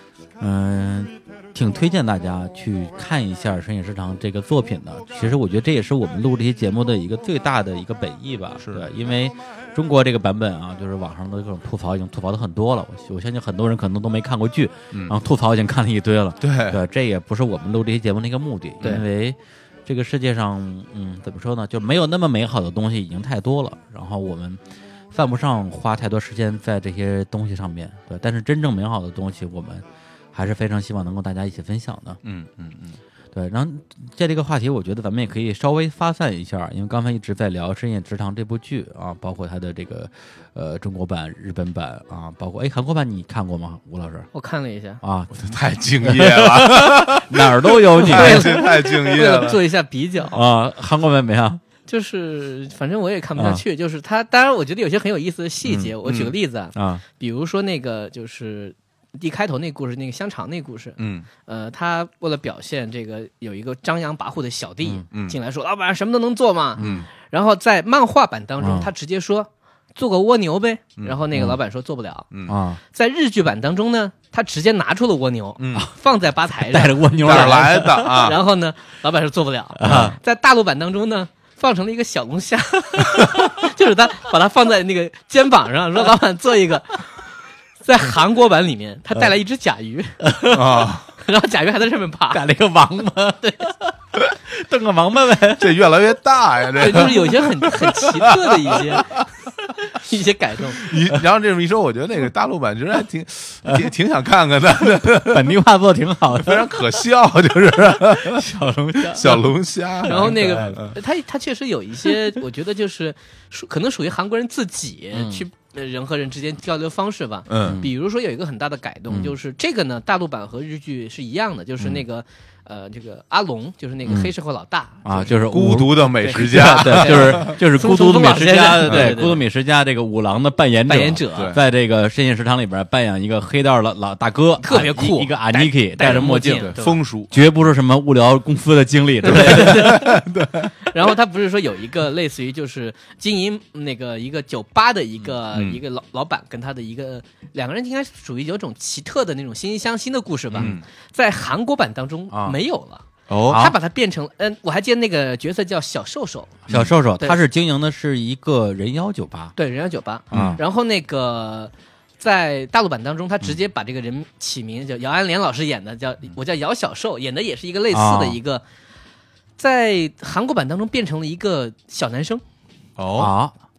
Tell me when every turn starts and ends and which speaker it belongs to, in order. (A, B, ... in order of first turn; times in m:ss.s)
0:00.4-0:24.6 A
0:08.6-0:08.9 B
0:14.9-0:15.2 B
0:16.4-0:16.8 B
0:25.1-0:32.2 A
0:32.2-0:33.0 B
0:33.3-0:44.3 A
0:44.3-0:45.0 C
0:45.0-0:45.4 A
0:45.3-0:49.6 B
0:46.0-0:48.7 A
0:48.0-0:50.4 C
0:50.3-0:51.6 A
0:51.9-1:12.3 C
0:53.4-0:53.6 A
0:55.6-0:56.0 A
0:56.0-0:56.3 B
0:56.8-0:57.0 A
1:01.0-1:01.3 B
1:05.1-1:05.4 B
1:06.8-1:07.1 A
1:06.8-1:07.1 B
1:08.6-1:08.9 A
1:12.3-1:12.6 B
1:12.5-1:12.8 A
1:12.9-1:27.2 C
1:15.6-1:15.9 B
1:16.6-1:18.3 A
1:17.2-1:18.4 B
1:19.8-1:20.2 A
1:19.8-1:20.2 B
1:27.8-1:30.2 C
1:30.2-1:30.9 A
1:30.5-1:31.1 B
1:31.2-1:32.4 C
1:32.3-1:33.9 A
1:34.5-1:35.8 A
1:35.6-1:37.6 B
1:36.8-1:39.1 C
1:38.5-1:39.2 B
1:39.9-1:40.8 C
1:40.8-1:45.6 B
1:43.7-1:43.9 A
1:45.0-1:46.9 A
1:46.4-1:48.5 B
1:48.0-1:49.5 A
1:49.0-1:51.0 B
1:50.0-1:50.8 A
1:50.1-2:05.3 C
1:55.1-1:55.5 A
1:57.5-1:57.8 B
1:57.6-1:57.9 A
1:59.1-1:59.4 A
2:04.1-2:04.3 A
2:05.0-2:16.8 A
2:05.4-2:07.6 B
2:06.2-2:09.4 C
2:08.9-2:09.2 B
2:10.9-2:11.5 C
2:11.3-2:11.6 B
2:14.6-2:17.0 C
2:16.6-2:17.4 B
2:17.3-2:20.2 A
2:19.2-2:20.2 C
2:19.3-2:20.7 B
2:20.9-2:36.6 C
2:25.5-2:25.8 B
2:30.6-2:30.8 B
2:32.3-2:32.6 A
2:33.3-2:33.7 B
2:33.5-2:33.7 A
2:36.7-2:39.6 A
2:39.6-2:48.6 C
2:40.3-2:40.6 A
2:40.3-2:40.6 B
2:47.9-2:48.4 A
2:49.6-2:52.4 C
2:53.0-2:53.3 B
2:53.2-2:53.6 A